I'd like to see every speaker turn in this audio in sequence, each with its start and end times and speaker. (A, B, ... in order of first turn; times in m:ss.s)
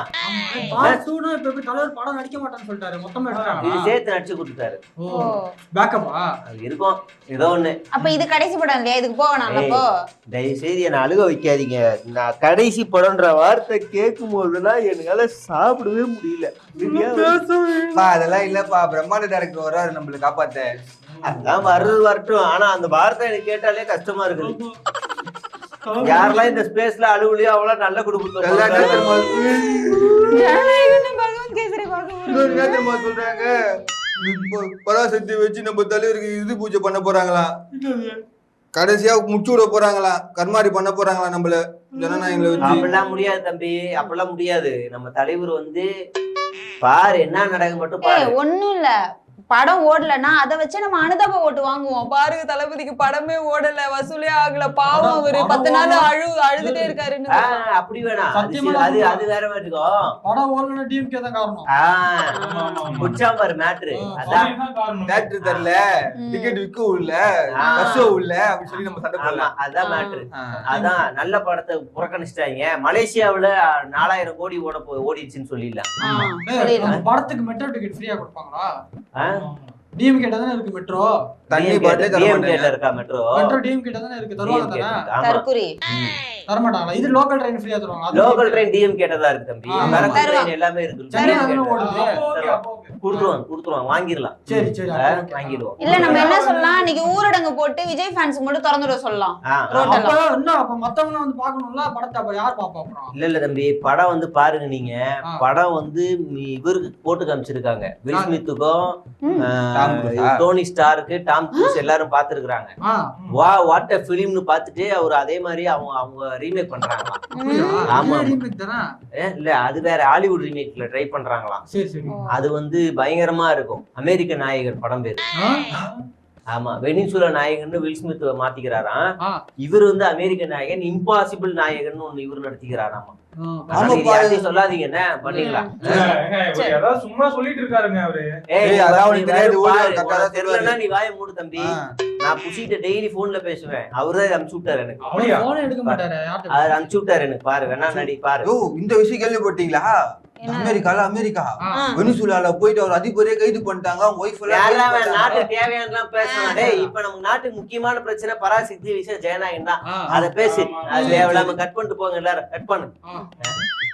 0:00.2-0:03.9 A
0:03.3-0:03.6 B
0:03.6-0:04.8 C
0:05.0-0:06.3 A
0:05.1-0:05.5 D
0:06.5-0:07.9 C
0:07.9-0:09.8 D
0:09.5-0:17.4 C
0:16.8-0:17.2 B
0:17.9-0:20.7 E
0:21.2-0:21.6 B
0:21.2-0:24.6 C
0:24.4-0:24.7 A
0:25.8-0:26.6 A
0:26.0-0:29.2 C
0:28.4-0:30.5 E
0:29.4-0:32.9 D
0:32.3-0:33.6 E
0:34.2-0:37.5 E
0:34.2-0:34.5 A
0:37.8-0:38.2 A
0:38.7-0:42.9 E
0:42.6-0:45.9 C
0:46.8-0:48.3 C
0:48.1-0:49.0 D
0:49.5-0:57.6 D
0:54.9-0:57.0 A
0:57.3-1:00.1 C
0:58.1-0:59.3 A
1:00.2-1:01.7 A
1:01.8-1:02.3 C
1:02.4-1:03.1 D
1:02.4-1:03.2 B
1:03.0-1:04.5 C
1:03.9-1:04.5 A
1:04.2-1:05.4 B
1:05.1-1:09.5 E
1:06.2-1:06.6 D
1:07.6-1:08.1 C
1:07.6-1:08.1 D
1:09.2-1:16.1 C
1:09.8-1:10.2 D
1:10.5-1:11.0 A
1:16.0-1:18.7 A
1:16.1-1:16.9 D
1:19.2-1:19.4 C
1:19.3-1:19.8 B
1:19.9-1:21.1 A
1:21.5-1:22.7 E
1:21.5-1:23.5 C
1:23.3-1:25.1 A
1:24.4-1:26.1 C
1:25.2-1:25.8 D
1:26.5-1:28.7 A
1:28.1-1:34.5 C
1:29.7-1:30.2 A
1:29.8-1:30.2 E
1:30.1-1:30.5 D
1:31.1-1:32.2 A
1:31.4-1:33.0 B
1:33.1-1:33.4 A
1:34.5-1:37.1 A
1:35.0-1:36.4 C
1:35.8-1:40.2 D
1:39.5-1:39.8 C
1:39.7-1:43.1 A
1:43.2-1:52.7 C
1:48.1-1:48.4 A
1:49.7-1:50.4 E
1:51.5-1:51.8 D
1:52.8-1:53.2 A
1:53.3-1:57.3 C
1:57.3-1:57.9 D
1:57.3-1:58.8 A
1:57.9-1:58.4 C
1:59.2-2:01.6 C
2:01.7-2:02.2 A
2:02.1-2:02.4 D
2:02.3-2:05.2 C
2:05.4-2:05.7 A
2:06.5-2:09.0 C
2:09.6-2:13.1 C
2:13.4-2:13.9 A
2:13.7-2:16.2 C
2:13.7-2:14.5 E
2:15.3-2:15.6 A
2:15.3-2:15.8 D
2:15.8-2:18.4 B
2:18.5-2:25.1 C
2:18.6-2:20.8 E
2:25.0-2:26.9 A
2:25.1-2:25.5 B
2:25.8-2:28.5 C
2:27.9-2:29.9 E
2:30.4-2:30.9 D
2:30.5-2:35.4 E
2:31.6-2:31.9 A
2:31.7-2:32.1 D
2:34.5-2:43.6 C
2:36.2-2:36.7 D
2:36.5-2:36.9 A
2:39.9-2:40.1 A
2:40.1-2:40.4 E
2:40.4-2:41.1 B
2:40.9-2:41.6 E